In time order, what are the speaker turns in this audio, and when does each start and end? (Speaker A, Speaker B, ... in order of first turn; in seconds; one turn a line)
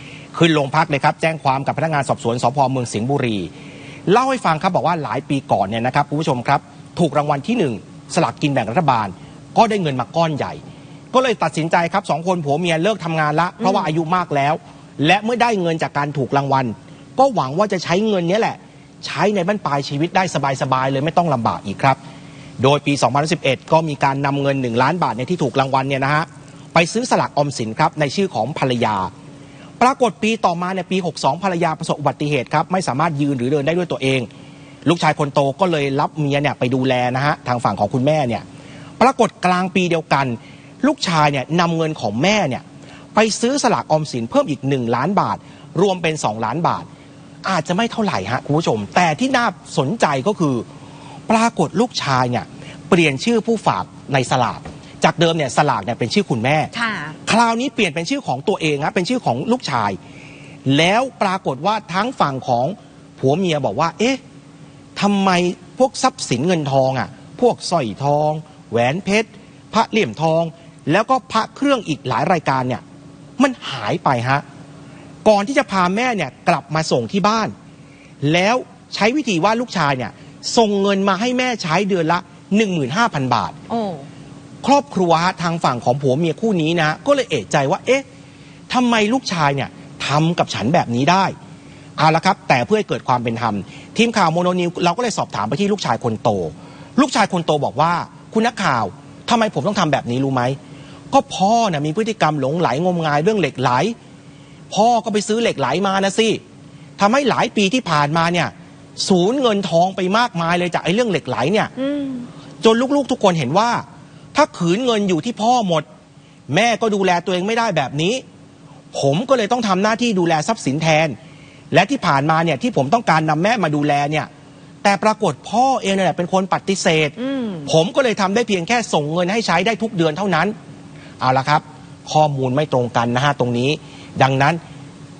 Speaker A: 0.3-3.5
Speaker A: 4.1-10.6
Speaker A: 11.1-22.0
Speaker A: 22.6-29.1
Speaker A: 29.8-34.3
Speaker A: 34.9-38.4
Speaker A: 39.0-42.6
Speaker A: 43.1-46.9
Speaker A: 47.4-50.7
Speaker A: 51.3-56.7
Speaker B: 56.7-57.2
Speaker A: 57.2-60.0
Speaker A: 60.7-64.2
Speaker A: 65.0-72.8
Speaker A: 73.4-74.4
Speaker A: 75.2-77.5
Speaker A: 78.2-83.6
Speaker B: 83.7-84.1
Speaker A: 84.6-88.0
Speaker A: 88.7-91.3
Speaker A: 92.0-100.6
Speaker A: 101.1-104.0
Speaker A: 104.7-106.4
Speaker A: 107.0-111.7
Speaker B: 111.8-112.3
Speaker A: 112.6-113.8
Speaker A: 114.3-115.9
Speaker A: 116.5-118.2
Speaker A: 118.9-121.2
Speaker A: 121.7-124.3
Speaker A: 124.8-130.5
Speaker B: 127.2-127.7
Speaker A: 131.2-134.6